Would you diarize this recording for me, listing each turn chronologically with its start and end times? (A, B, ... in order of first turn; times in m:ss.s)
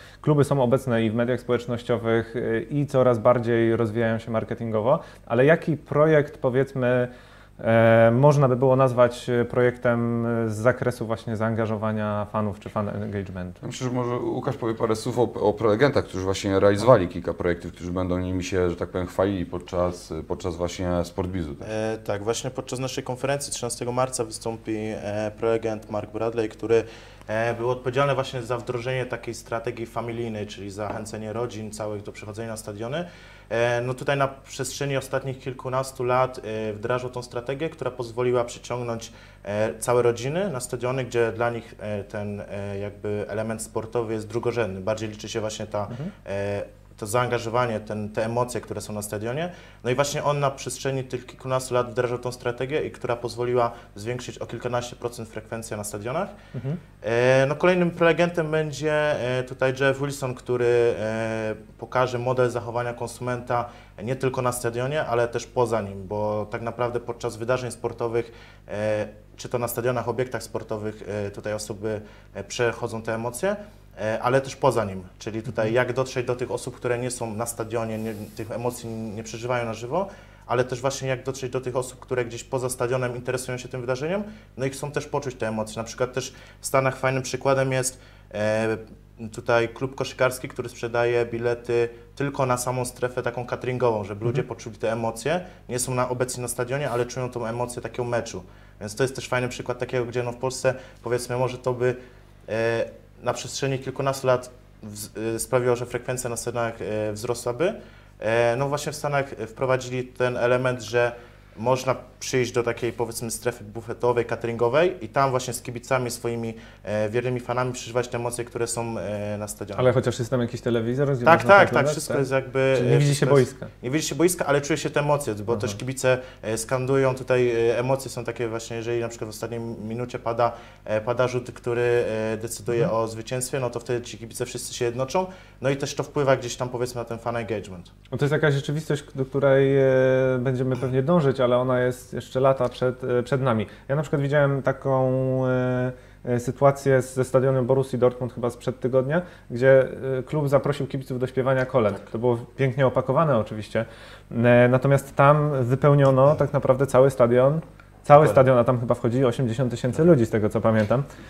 0:00.2-0:13.6 A
0:13.6-0:21.7 B
0:21.6-0:56.4 C
0:56.5-0:56.8 A
0:57.0-1:59.9 C
1:59.8-2:02.2 A
2:01.2-2:17.9 C
2:02.8-2:03.7 A
2:18.1-2:41.0 A